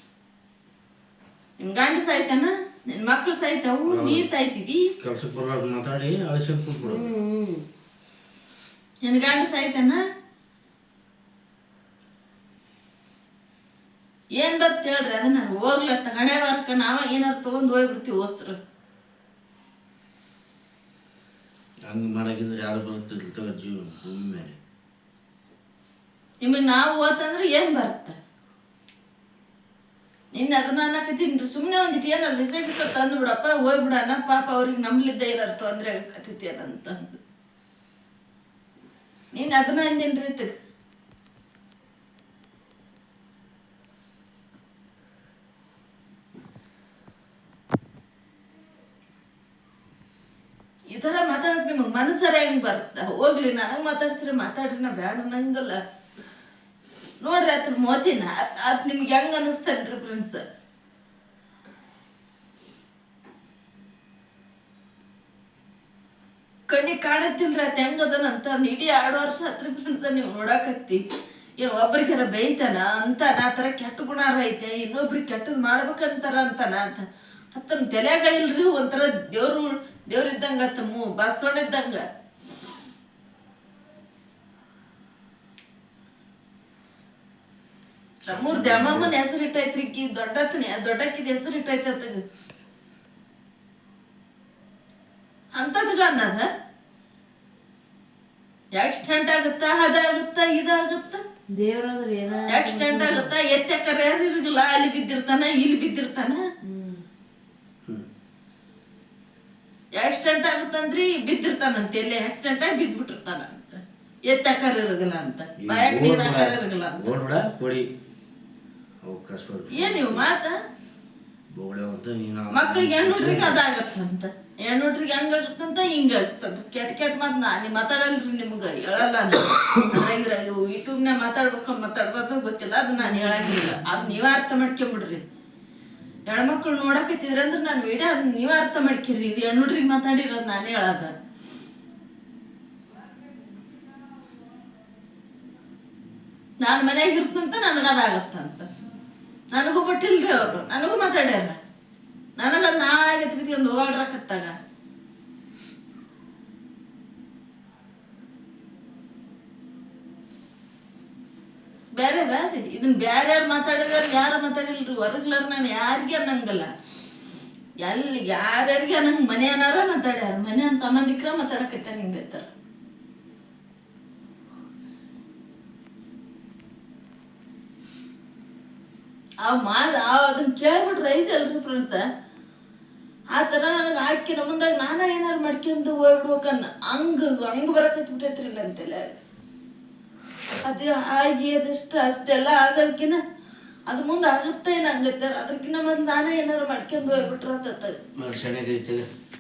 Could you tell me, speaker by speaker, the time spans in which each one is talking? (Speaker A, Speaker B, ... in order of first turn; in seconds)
Speaker A: 1.6-4.9, 9.0-10.0, 14.4-18.6, 26.4-28.2, 30.4-37.2, 39.3-40.5, 50.9-55.8, 57.2-60.4, 66.7-71.0, 71.6-82.0, 88.3-92.2, 95.5-96.5, 98.8-101.2, 102.5-106.4, 110.0-117.1, 119.7-120.6, 122.5-135.2, 136.3-141.1, 146.6-148.7, 149.5-151.6, 152.4-154.6, 162.0-166.7, 167.8-172.5, 179.4-182.1, 183.3-189.2, 190.6-193.2, 193.9-198.0
Speaker B: 3.9-4.3, 5.0-7.2, 21.9-24.6, 88.3-89.2, 115.6-117.9, 119.0-120.3, 121.5-123.6, 197.1-197.3, 198.1-199.1
Speaker C: 6.8-7.6, 101.5-103.3, 106.6-107.0